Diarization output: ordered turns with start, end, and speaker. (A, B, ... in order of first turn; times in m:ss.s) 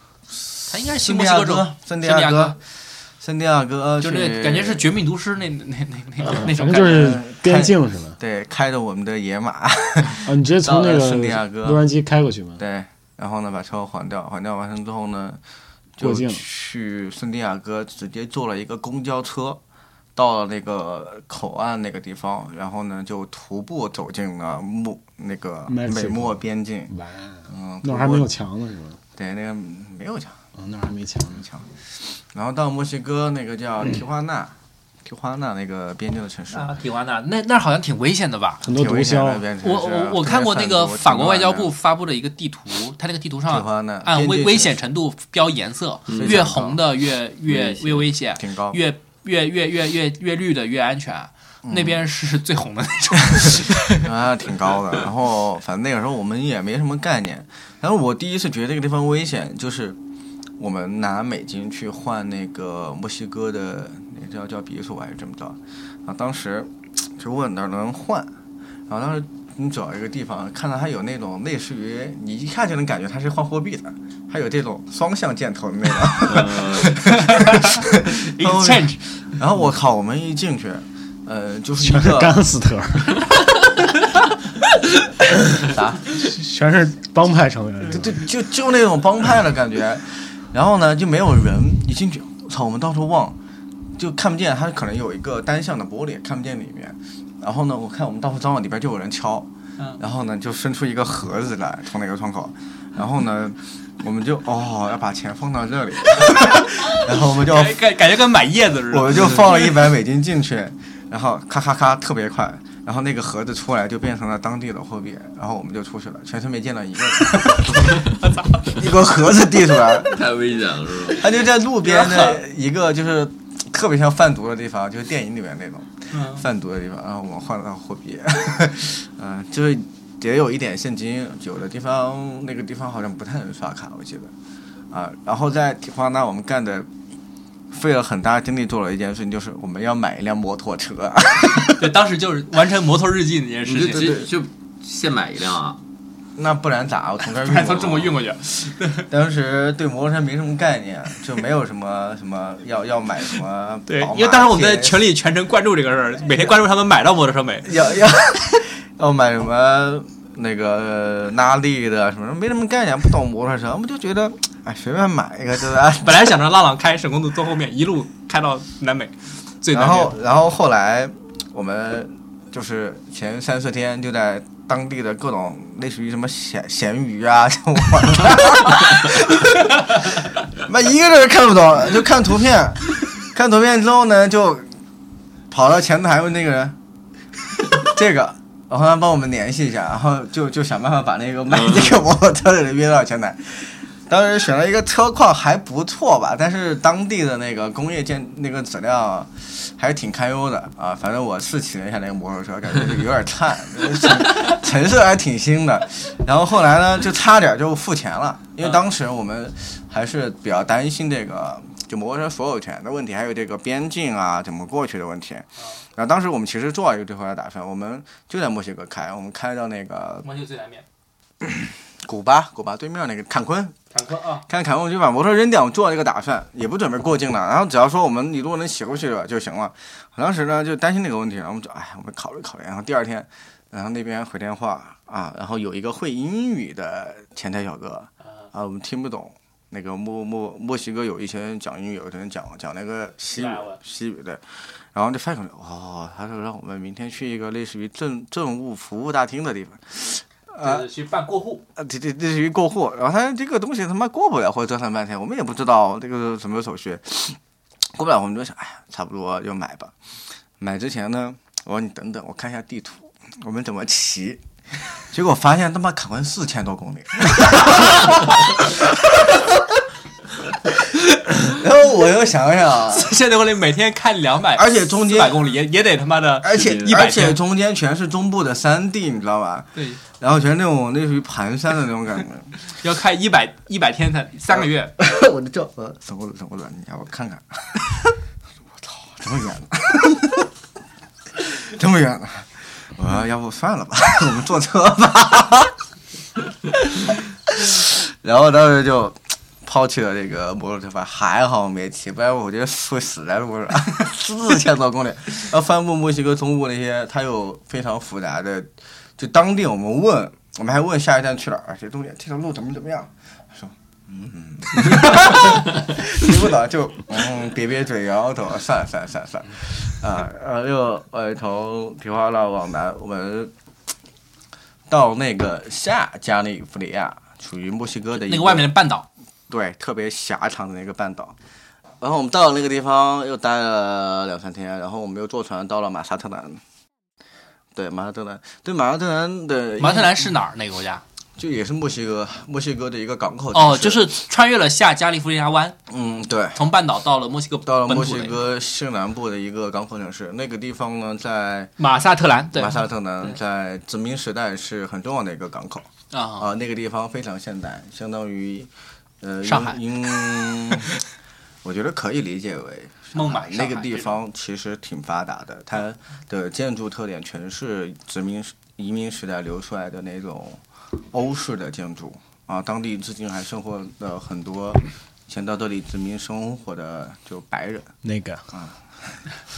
0:00.3-0:04.9 A
0:00.7-0:02.6 B
0:04.0-0:07.1 B
0:06.3-0:08.2 C
0:06.7-0:11.9 A
0:10.2-0:12.6 C
0:12.6-0:15.4 A
0:16.0-0:19.6 A
0:16.0-0:16.4 C
0:20.1-0:26.9 A
0:25.7-0:29.0 C
0:27.5-0:28.3 A
0:29.1-0:30.4 A
0:30.5-0:31.4 C
0:31.4-0:36.7 A
0:36.5-0:38.6 B
0:38.6-0:39.4 C
0:38.6-0:41.7 A
0:39.6-0:54.1 B
0:43.5-0:44.8 A
0:46.1-0:46.4 D
0:46.1-0:46.8 A
0:47.5-0:48.1 D
0:48.4-0:48.8 A
0:51.6-0:52.0 A
0:53.4-1:00.0 A
1:00.6-1:08.3 A
1:08.9-1:22.4 A
1:16.2-1:17.0 D
1:17.1-1:19.0 B
1:21.8-1:23.2 C
1:25.6-1:28.2 C
1:25.6-1:26.1 A
1:27.8-1:33.4 A
1:34.0-1:47.8 A
1:46.3-1:49.8 B
1:48.9-2:00.2 A
1:58.2-1:58.6 B
2:00.0-2:01.2 D
2:01.1-2:14.3 A
2:01.8-2:02.4 B
2:06.1-2:06.4 B
2:14.9-2:16.9 A
2:17.7-2:21.9 A
2:21.7-2:24.2 B
2:23.6-2:25.8 D
2:23.9-2:24.3 A
2:26.4-2:28.2 A
2:27.3-2:29.1 B
2:29.1-2:35.0 A
2:33.9-2:37.7 B
2:37.6-2:46.3 A
2:46.0-2:50.2 B
2:49.7-3:04.7 A
3:05.5-3:06.8 A
3:07.7-3:40.2 A
3:40.2-3:40.8 B
3:41.4-3:43.8 A
3:43.9-3:44.4 B
3:44.5-4:10.9 A
4:03.3-4:03.8 B
4:10.6-4:11.6 B
4:11.8-4:17.4 A
4:17.9-4:19.9 A
4:20.6-4:29.6 A
4:30.6-4:33.1 A
4:32.9-4:37.4 B
4:34.5-4:35.5 A
4:36.4-4:42.5 A
4:39.7-4:40.0 B
4:42.7-4:44.9 B
4:44.6-4:48.2 A
4:48.7-4:50.5 A
4:51.3-4:55.8 A
4:56.7-5:23.5 A
5:24.9-5:28.7 A
5:28.2-5:29.1 B
5:29.5-5:31.4 A
5:32.0-5:36.6 A
5:37.7-5:40.3 A
5:39.8-5:41.0 B
5:41.4-5:44.1 A
5:43.5-5:45.8 B
5:45.9-5:46.6 A
5:46.5-5:48.4 B
5:47.6-5:51.7 A
5:51.8-5:53.4 B
5:52.5-6:00.9 A
5:56.1-5:56.5 B
5:59.4-5:59.8 B
6:01.6-6:17.9 A
6:03.1-6:04.2 B
6:18.0-6:18.5 C
6:18.5-6:19.2 A